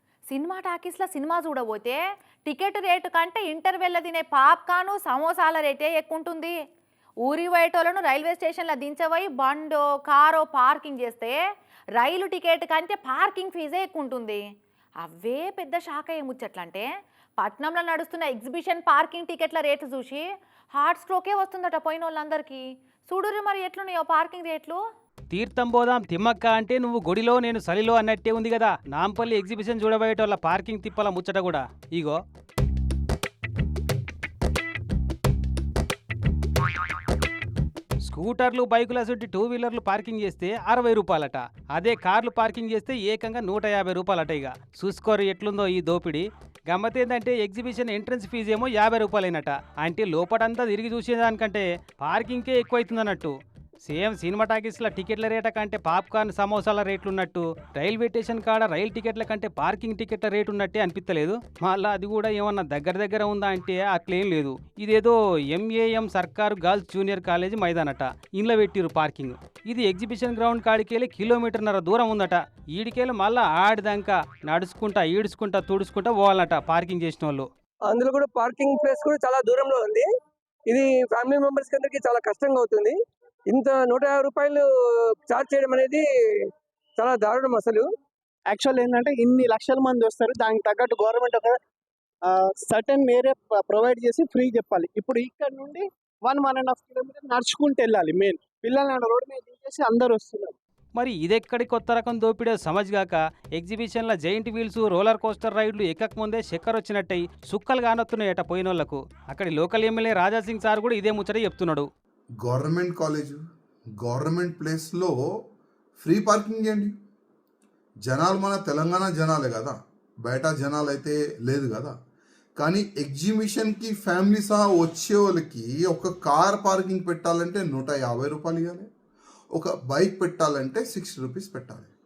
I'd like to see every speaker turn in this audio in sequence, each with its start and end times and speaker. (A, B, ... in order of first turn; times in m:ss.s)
0:00.3-0:06.5 A
0:07.2-0:11.4 A
0:12.0-0:14.4 A
0:15.0-0:16.9 A
0:17.4-0:20.2 A
0:20.8-0:24.8 A
0:25.3-0:32.2 B
0:38.0-1:17.5 B
1:17.9-1:20.1 C
1:20.7-1:23.0 C
1:23.5-1:24.7 C
1:25.3-1:26.0 C
1:27.0-1:27.9 C
1:28.5-1:31.6 D
1:32.3-1:40.6 D
1:41.0-1:51.9 B
1:52.4-1:53.4 E
1:54.0-1:55.2 E
1:56.0-1:57.0 E
1:58.1-2:01.9 E
2:02.6-2:08.9 E
2:09.6-2:11.9 E